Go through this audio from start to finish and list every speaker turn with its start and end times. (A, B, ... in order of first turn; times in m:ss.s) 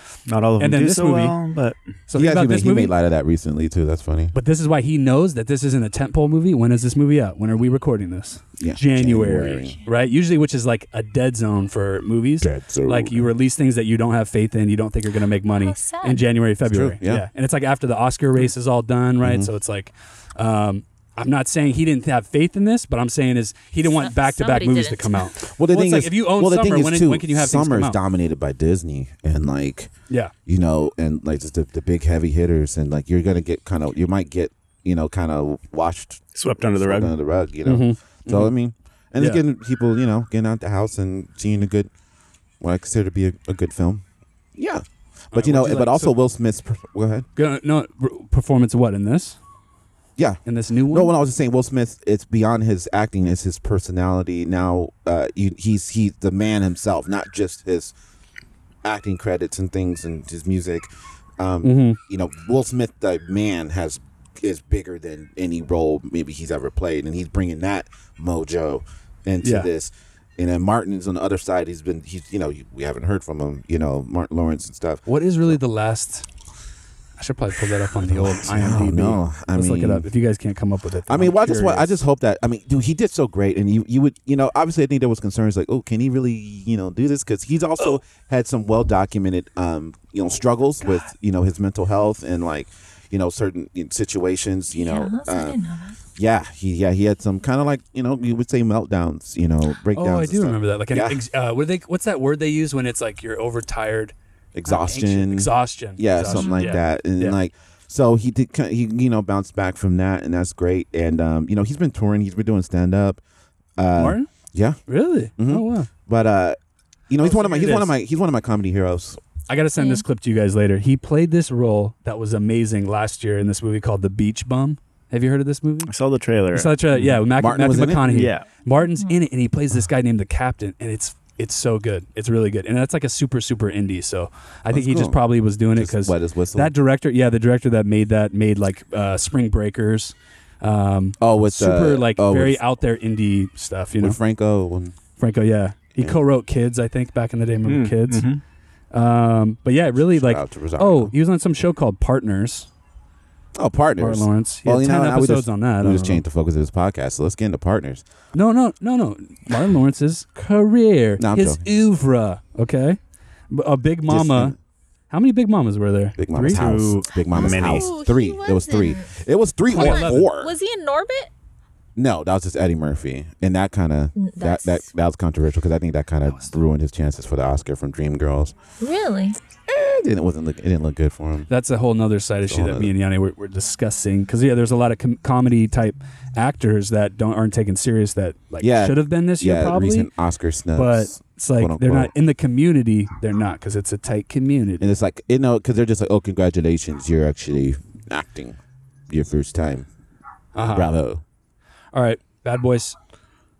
0:00.2-0:01.8 A
0:00.6-0:01.4 B
0:02.1-0:02.9 B
0:02.1-0:04.3 C
0:04.3-0:28.0 B
0:08.6-0:09.8 C
0:12.4-0:13.3 C
0:15.6-0:16.2 D
0:16.6-0:17.2 C
0:19.2-0:19.5 C
0:23.9-0:25.2 D
0:25.5-0:29.9 C
0:30.5-0:41.9 C
0:36.3-0:37.1 A
0:37.6-0:38.5 B
0:39.2-0:39.4 B
0:42.6-0:44.0 C
0:44.5-0:47.2 C
0:45.3-0:46.1 B
0:47.4-0:49.4 B
0:50.2-0:57.9 C
0:50.4-0:51.1 B
0:58.8-1:00.9 C
1:01.4-1:15.6 C
1:01.6-1:02.0 B
1:09.4-1:09.7 B
1:15.0-1:16.2 B
1:17.2-1:22.0 B
1:18.0-1:20.1 C
1:21.1-1:35.6 C
1:34.7-1:36.0 D
1:36.2-1:41.2 C
1:39.9-1:44.1 B
1:44.5-1:53.2 C
1:44.7-1:47.4 B
1:46.3-1:46.7 D
1:53.8-1:54.8 C
1:54.0-1:54.3 B
1:54.9-1:55.9 B
1:55.4-1:56.6 C
1:57.1-1:59.2 C
1:57.2-1:57.9 B
1:59.5-2:05.9 B
1:59.8-2:00.0 D
2:05.9-2:07.2 A
2:06.5-2:24.2 B
2:07.1-2:08.2 C
2:08.1-2:08.5 A
2:14.7-2:15.2 C
2:15.7-2:16.7 C
2:21.2-2:22.6 C
2:24.0-2:25.0 C
2:25.2-2:28.3 B
2:25.9-2:26.2 C
2:27.6-2:28.4 A
2:28.9-2:32.7 B
2:30.0-2:31.1 C
2:33.5-2:38.0 C
2:34.0-2:36.2 B
2:38.3-2:43.0 B
2:41.2-2:41.6 C
2:43.5-2:44.6 B
2:44.1-2:44.6 C
2:45.1-2:46.9 B
2:46.2-2:50.5 C
2:46.5-2:47.9 A
2:47.3-2:49.1 D
2:49.7-2:50.3 B
2:49.7-2:51.3 D
2:52.0-2:58.6 C
2:54.2-2:54.9 D
2:58.8-2:59.4 D
2:59.7-3:01.5 C
3:01.5-3:10.1 B
3:02.5-3:02.9 C
3:08.6-3:12.1 C
3:10.7-3:14.9 B
3:14.8-3:18.6 C
3:19.1-3:19.9 C
3:20.5-3:21.0 B
3:20.7-3:21.2 C
3:21.9-3:23.0 B